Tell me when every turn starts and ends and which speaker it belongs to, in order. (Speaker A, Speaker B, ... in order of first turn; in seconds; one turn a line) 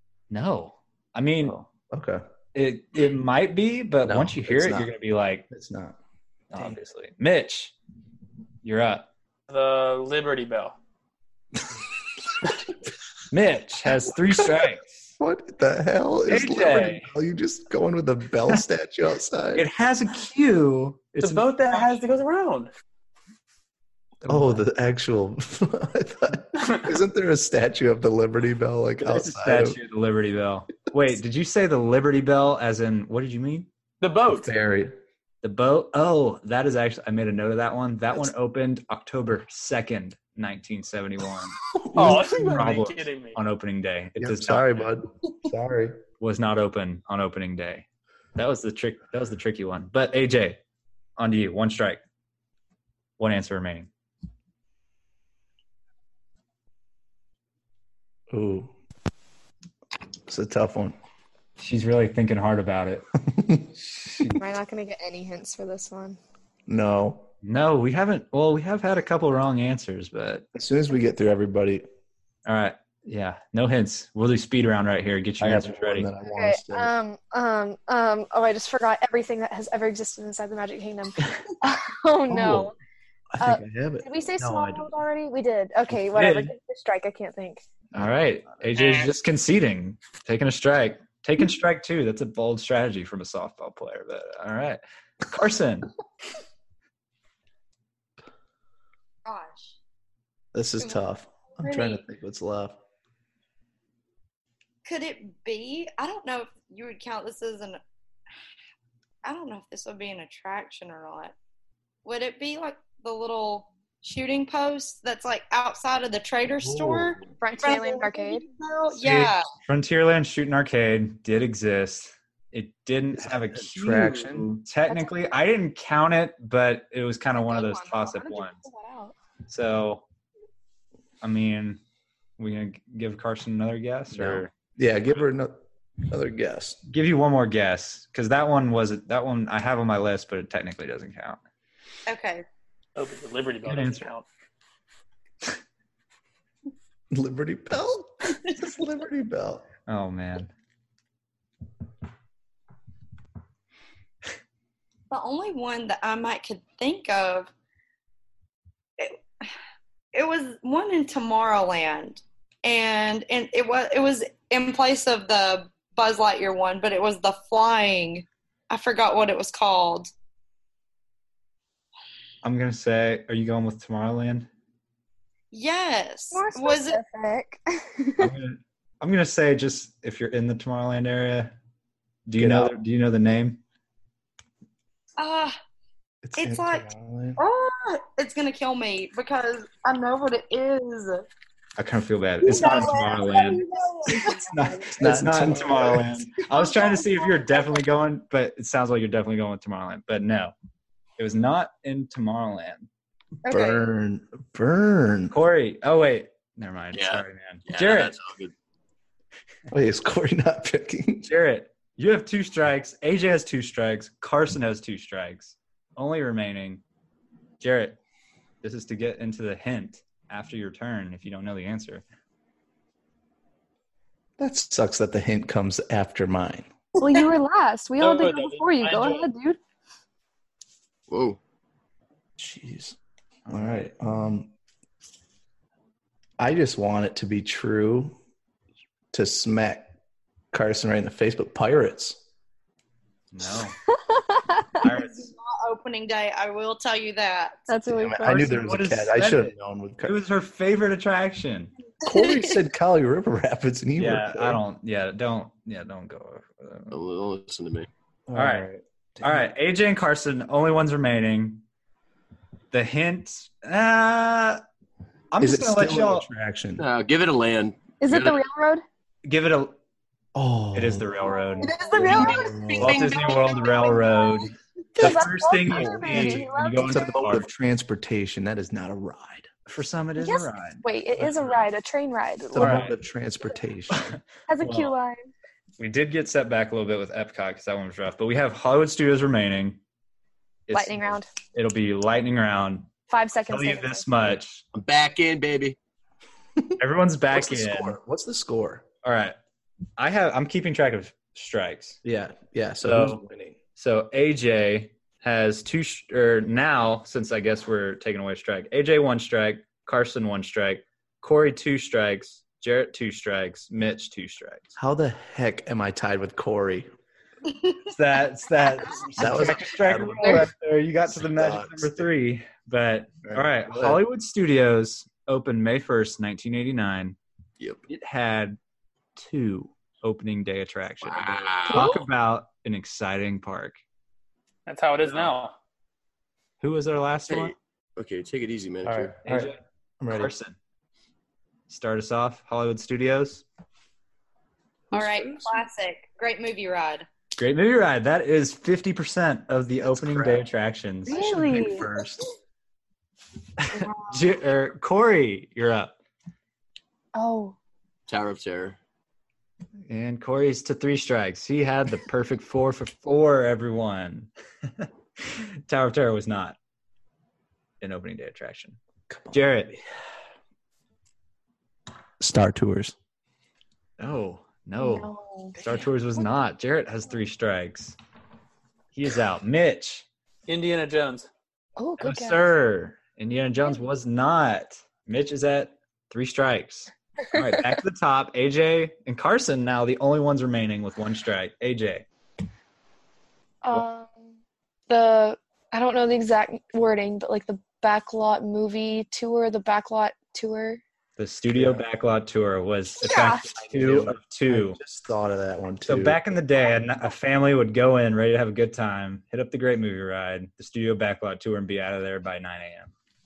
Speaker A: 0.3-1.6
Speaker B: 1.4-2.2
Speaker A: 2.5-5.5
Speaker B: 4.0-4.9
Speaker B: 5.5-6.0
Speaker A: 6.5-7.7
Speaker A: 8.6-9.0
Speaker C: 9.5-10.7
Speaker A: 13.3-15.1
Speaker B: 15.2-19.7
Speaker A: 16.3-17.1
Speaker A: 19.5-21.9
Speaker C: 21.2-22.7
Speaker A: 24.2-24.6
Speaker B: 24.2-29.8
Speaker A: 29.0-33.7
Speaker C: 34.0-34.5
Speaker B: 34.3-35.0
Speaker A: 35.4-44.9
Speaker B: 41.7-42.4
Speaker C: 41.9-43.4
Speaker B: 44.2-46.0
Speaker A: 46.2-50.6
Speaker A: 51.2-52.0
Speaker A: 53.2-53.9
Speaker B: 58.3-58.7
Speaker B: 60.3-61.0
Speaker A: 61.6-63.0
Speaker B: 63.3-64.4
Speaker D: 64.4-66.2
Speaker B: 66.7-67.3
Speaker A: 67.4-70.5
Speaker B: 70.5-71.9
Speaker A: 72.5-76.1
Speaker B: 75.4-76.9
Speaker D: 76.3-82.7
Speaker B: 82.3-82.7
Speaker B: 83.3-84.9
Speaker D: 83.4-87.6
Speaker A: 86.1-86.5
Speaker A: 87.9-95.9
Speaker E: 99.2-99.8
Speaker B: 100.5-102.8
Speaker E: 101.6-102.0
Speaker E: 104.8-107.8
Speaker E: 109.2-111.3
Speaker E: 112.0-119.5
Speaker B: 116.6-117.3
Speaker D: 117.4-118.4
Speaker A: 119.0-128.6
Speaker B: 123.2-124.5
Speaker D: 127.4-129.1
Speaker A: 129.5-130.0
Speaker A: 131.2-131.8
Speaker A: 132.4-134.5
Speaker B: 134.1-136.8
Speaker A: 136.9-141.4
Speaker E: 142.1-142.4
Speaker C: 142.9-144.2
Speaker A: 143.6-144.1
Speaker B: 147.1-149.7
Speaker A: 149.9-150.5
Speaker E: 155.1-157.5
Speaker E: 159.0-159.5
Speaker E: 160.1-170.1
Speaker A: 172.4-174.5
Speaker E: 175.5-177.0
Speaker D: 176.3-178.3
Speaker A: 178.2-181.6
Speaker A: 182.3-183.6
Speaker B: 182.4-182.7
Speaker E: 185.2-185.6
Speaker B: 186.2-187.4
Speaker E: 186.4-191.2
Speaker A: 191.8-200.5
Speaker E: 192.4-194.9
Speaker B: 195.0-196.1
Speaker E: 196.5-197.8
Speaker A: 201.2-202.9
Speaker E: 203.4-203.8
Speaker B: 203.5-205.3
Speaker A: 205.3-208.2
Speaker F: 206.9-208.5
Speaker B: 209.7-211.3
Speaker A: 211.2-216.8
Speaker A: 217.6-218.0
Speaker A: 218.6-222.0
Speaker B: 224.4-226.7
Speaker D: 227.0-229.6
Speaker C: 228.0-229.3
Speaker F: 231.1-231.4
Speaker B: 232.4-233.0
Speaker A: 233.4-233.9
Speaker B: 233.5-234.5
Speaker B: 236.4-238.1
Speaker B: 239.1-239.9
Speaker B: 240.5-242.2
Speaker A: 243.3-243.8
Speaker D: 243.9-244.8
Speaker A: 244.8-245.3
Speaker E: 244.8-247.7
Speaker D: 247.7-248.7
Speaker B: 247.9-250.2
Speaker A: 248.2-251.7
Speaker B: 252.0-254.6
Speaker A: 254.0-256.9
Speaker F: 256.9-257.9
Speaker B: 258.3-259.4
Speaker A: 258.3-261.6
Speaker A: 262.7-264.6
Speaker A: 265.3-266.3
Speaker B: 265.4-266.8
Speaker F: 266.8-268.4
Speaker D: 268.0-268.8
Speaker A: 269.2-269.7
Speaker B: 270.3-271.3
Speaker A: 270.7-272.2
Speaker D: 271.3-272.5
Speaker F: 271.6-273.2
Speaker E: 271.9-274.5
Speaker B: 272.0-273.0
Speaker A: 272.8-277.5
Speaker D: 274.9-277.1
Speaker B: 275.7-279.5
Speaker A: 279.7-281.5
Speaker D: 280.2-282.9
Speaker B: 282.5-284.2
Speaker A: 282.6-282.9
Speaker A: 283.9-284.9
Speaker D: 284.5-285.3
Speaker A: 285.8-289.8
Speaker A: 290.7-292.9
Speaker D: 290.7-291.3
Speaker D: 293.1-294.2
Speaker A: 293.5-294.6
Speaker F: 294.7-295.8
Speaker A: 296.8-298.0
Speaker B: 297.3-298.8
Speaker A: 299.0-299.3
Speaker A: 300.0-302.0
Speaker B: 302.0-303.6
Speaker A: 302.8-303.2
Speaker A: 303.8-314.7
Speaker B: 314.8-316.9
Speaker A: 317.9-327.2
Speaker B: 319.1-320.5
Speaker B: 321.1-322.1
Speaker B: 323.2-324.0
Speaker A: 327.9-328.6
Speaker A: 329.1-333.8
Speaker F: 331.0-332.0
Speaker C: 334.7-335.5
Speaker A: 335.1-335.3
Speaker A: 336.6-337.5
Speaker F: 337.3-339.1
Speaker B: 338.8-340.3
Speaker A: 339.2-340.6
Speaker A: 341.7-343.4
Speaker E: 344.9-347.1
Speaker A: 347.4-352.0
Speaker B: 349.8-350.4
Speaker B: 351.1-352.2
Speaker D: 351.1-351.9
Speaker A: 353.6-355.9
Speaker D: 357.1-357.6
Speaker F: 358.1-358.8
Speaker A: 359.9-366.6
Speaker A: 367.8-368.8
Speaker B: 369.1-369.8
Speaker A: 369.3-369.8
Speaker B: 372.2-372.9
Speaker A: 374.0-378.0
Speaker D: 374.8-375.6
Speaker A: 378.9-380.0
Speaker C: 380.5-381.3
Speaker D: 381.8-382.5
Speaker A: 382.0-392.1
Speaker D: 387.3-387.8
Speaker D: 393.6-394.3
Speaker D: 394.9-400.8
Speaker A: 401.2-404.8
Speaker B: 401.5-401.8
Speaker D: 403.0-403.4
Speaker B: 403.6-406.3
Speaker A: 405.8-412.9